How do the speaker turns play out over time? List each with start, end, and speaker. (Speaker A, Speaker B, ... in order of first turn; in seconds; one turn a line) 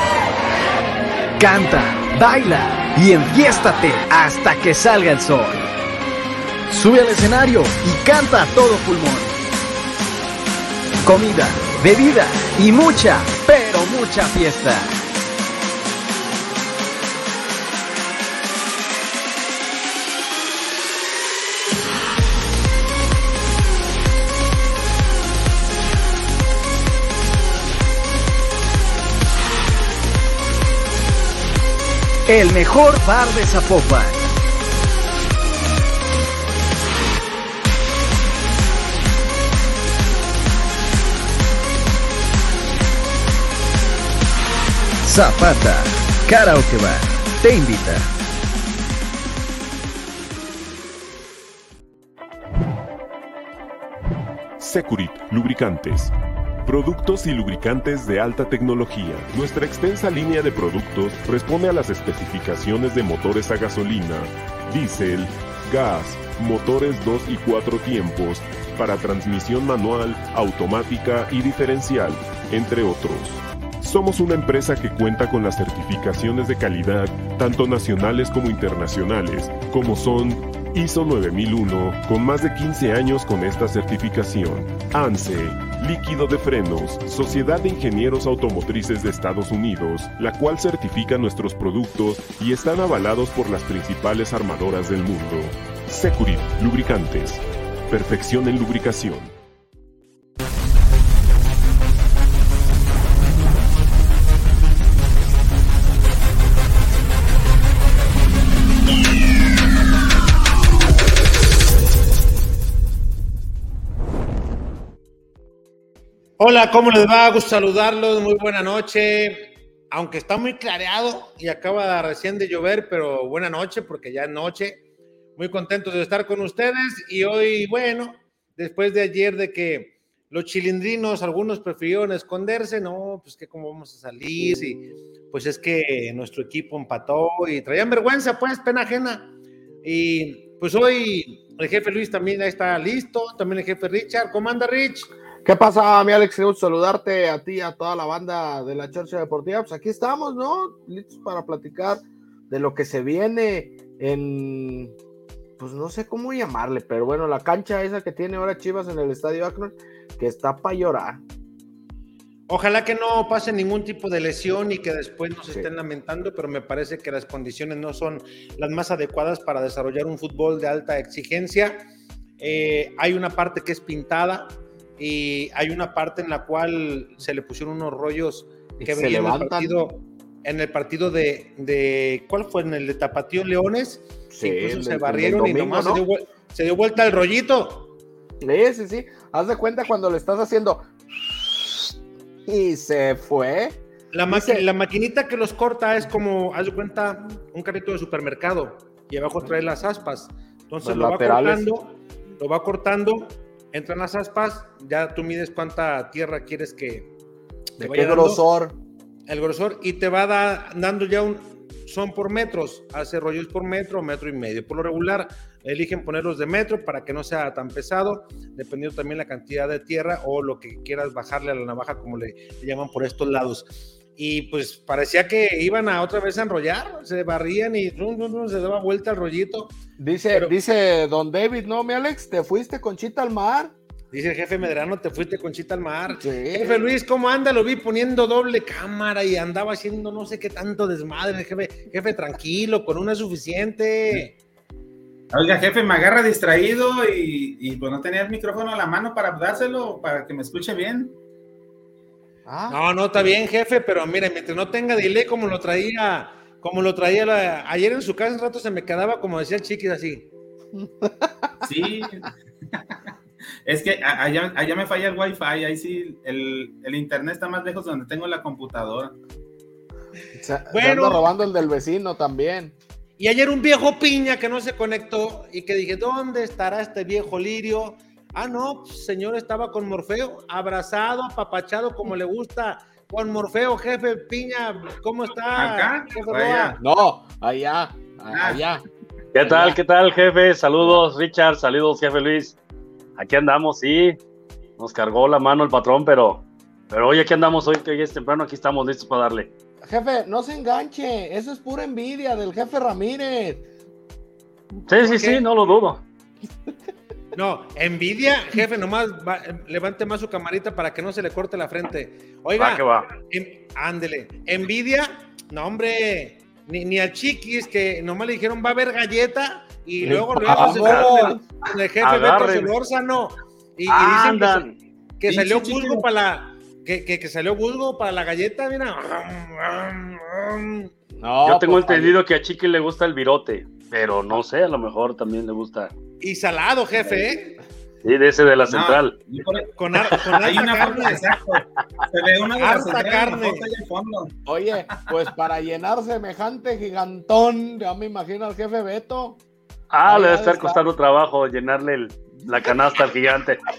Speaker A: 1.4-5.6
Speaker A: 6.7-9.4
Speaker A: 11.0-14.9
Speaker A: 32.3-34.2
Speaker A: 45.0-48.1
Speaker B: 54.6-56.1
Speaker B: 56.6-99.3
Speaker C: 116.4-124.8
Speaker C: 125.3-139.3
Speaker C: 139.8-145.1
Speaker D: 145.4-154.9
Speaker D: 155.6-161.2
Speaker C: 162.5-187.9
Speaker D: 178.8-179.7
Speaker D: 184.3-186.0
Speaker D: 188.4-191.9
Speaker D: 192.4-194.6
Speaker C: 194.1-207.1
Speaker D: 200.8-201.7
Speaker C: 207.8-208.4
Speaker D: 207.8-208.8
Speaker C: 209.3-229.8
Speaker D: 230.0-233.7
Speaker C: 234.1-244.3
Speaker D: 236.2-236.8
Speaker E: 245.3-251.2
Speaker D: 252.4-252.8
Speaker C: 252.7-260.3
Speaker D: 260.8-261.5
Speaker E: 261.6-262.3
Speaker E: 263.6-269.1
Speaker D: 270.3-272.8
Speaker C: 270.7-271.2
Speaker C: 273.2-286.8
Speaker E: 285.5-286.8
Speaker D: 286.8-288.8
Speaker E: 288.3-288.6
Speaker F: 289.3-292.6
Speaker D: 289.4-289.8
Speaker F: 293.2-294.2
Speaker F: 294.8-299.5
Speaker D: 299.8-303.7
Speaker F: 304.9-306.0
Speaker C: 305.0-305.4
Speaker C: 307.3-324.7
Speaker F: 312.6-313.1
Speaker D: 320.1-321.4
Speaker F: 320.4-321.3
Speaker F: 322.0-322.7
Speaker F: 323.9-324.8
Speaker C: 325.2-330.9
Speaker E: 325.3-326.1
Speaker D: 331.2-332.2
Speaker F: 331.4-335.9
Speaker C: 336.2-337.6
Speaker F: 338.0-339.2
Speaker E: 338.7-339.7
Speaker C: 339.7-341.2
Speaker E: 340.4-344.3
Speaker C: 342.6-343.7
Speaker D: 344.4-349.4
Speaker F: 349.9-353.6
Speaker D: 350.1-350.8
Speaker D: 352.4-352.7